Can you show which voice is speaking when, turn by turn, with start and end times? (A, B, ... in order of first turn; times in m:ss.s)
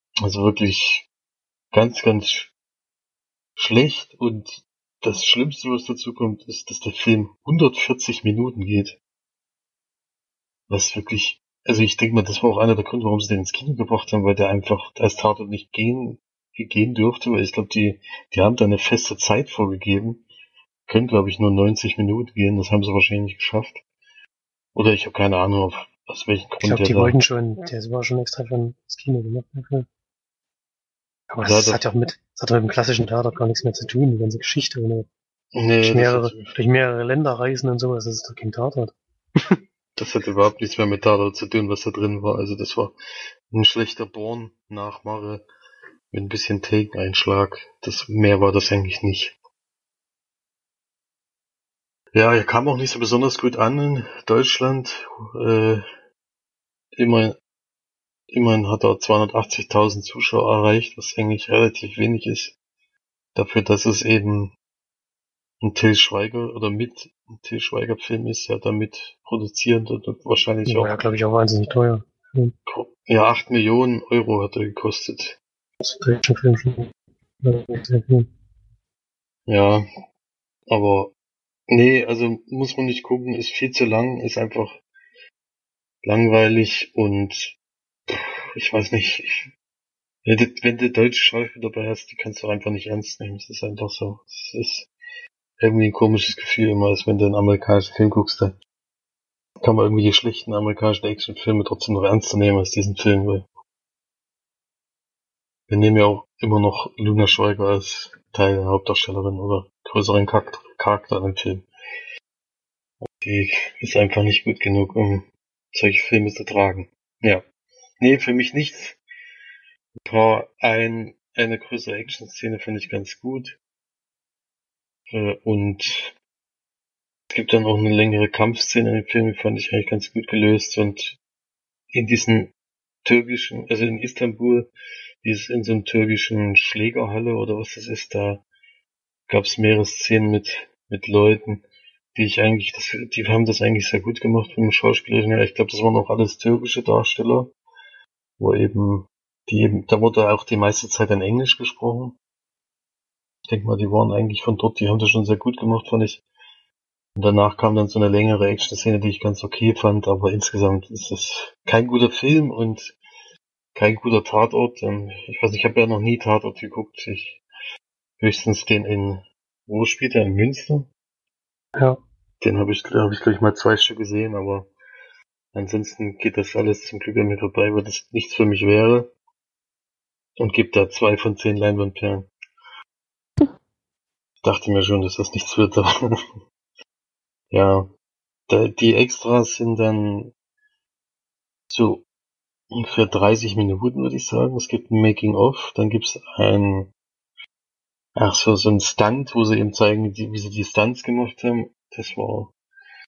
0:00.2-0:01.1 A
0:01.7-0:02.5 A
0:03.6-0:09.0 A
0:10.7-0:20.2 A
0:20.9-0:23.8 A
0:24.7-0:27.2 A
0:26.6-0:29.9 B
0:31.3-0:35.1 B
0:31.4-0:31.8 A
0:35.5-0:36.5 A
0:35.8-0:39.6 B
0:40.0-0:42.9 A
0:43.5-0:45.4 A
0:46.1-0:49.3 A
0:52.1-0:55.8 A
0:57.0-0:57.4 A
0:58.3-1:02.6 A
1:03.3-1:04.5 A
1:05.6-1:11.0 A
1:10.6-1:12.5 B
1:12.7-1:15.4 A
1:15.8-1:16.9 B
1:17.4-1:18.3 B
1:19.5-1:19.8 A
1:20.7-1:21.1 A
1:21.7-1:24.8 A
1:26.0-1:27.6 A
1:28.1-1:29.5 A
1:30.2-1:34.9 A
1:35.6-1:38.6 A
1:39.6-1:43.4 A
1:45.7-1:51.6 A
1:53.0-1:57.4 A
1:58.0-1:59.0 A
2:00.0-2:03.6 A
2:05.1-2:06.1 A
2:07.3-2:11.2 A
2:11.9-2:12.5 A
2:13.0-2:14.7 A
2:15.2-2:18.4 A
2:19.3-2:21.6 A
2:22.1-2:27.5 A
2:28.4-2:32.2 A
2:33.5-2:36.2 A
2:37.2-2:43.0 A
2:43.7-2:47.4 A
2:48.2-2:50.9 A
2:51.7-2:52.0 B
2:52.4-2:54.7 A
2:55.5-2:59.1 A
3:00.4-3:02.3 A
3:04.4-3:06.2 A
3:07.5-3:07.9 A
3:08.5-3:10.3 A
3:11.7-3:12.0 A
3:12.7-3:16.9 A
3:18.2-3:22.5 A